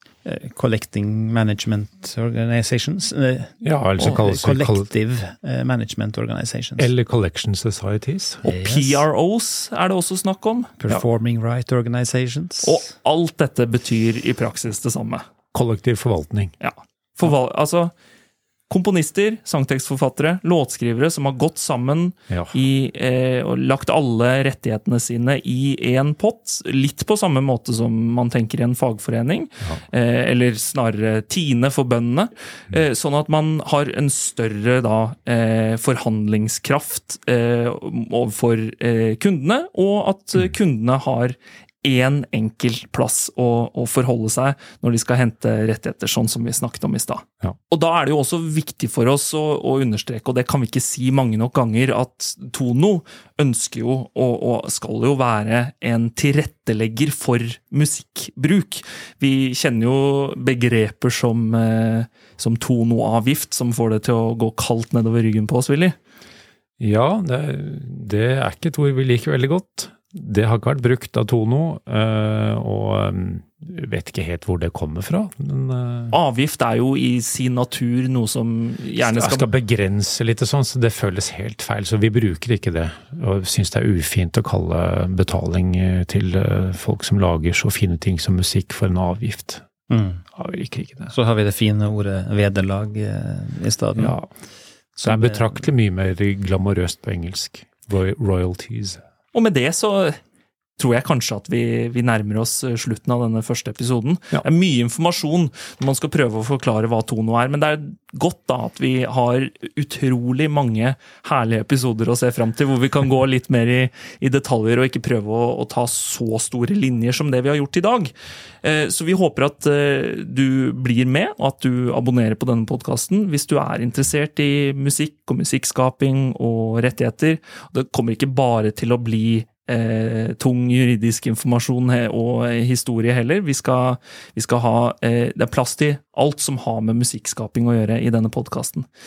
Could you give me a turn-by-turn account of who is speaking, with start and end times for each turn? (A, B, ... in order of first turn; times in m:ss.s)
0:00.2-0:06.9 A
0:03.6-0:04.9 B
0:06.8-0:08.4 B
0:08.4-0:09.0 A
0:08.4-0:10.7 C
0:10.8-0:12.8 A
0:12.6-0:15.2 C
0:15.5-0:16.5 B
0:16.6-0:17.9 C
0:18.7-1:05.9 C
0:22.3-0:22.6 B
1:06.8-1:16.2 B
1:16.1-1:19.5 C
1:19.0-1:29.6 B
1:29.9-1:30.2 A
1:30.3-1:31.1 B
1:31.1-1:34.1 A
1:34.0-1:34.3 B
1:35.0-1:35.6 A
1:35.0-1:39.0 B
1:39.3-1:40.2 C
1:40.8-1:58.1 C
1:58.6-2:18.8 C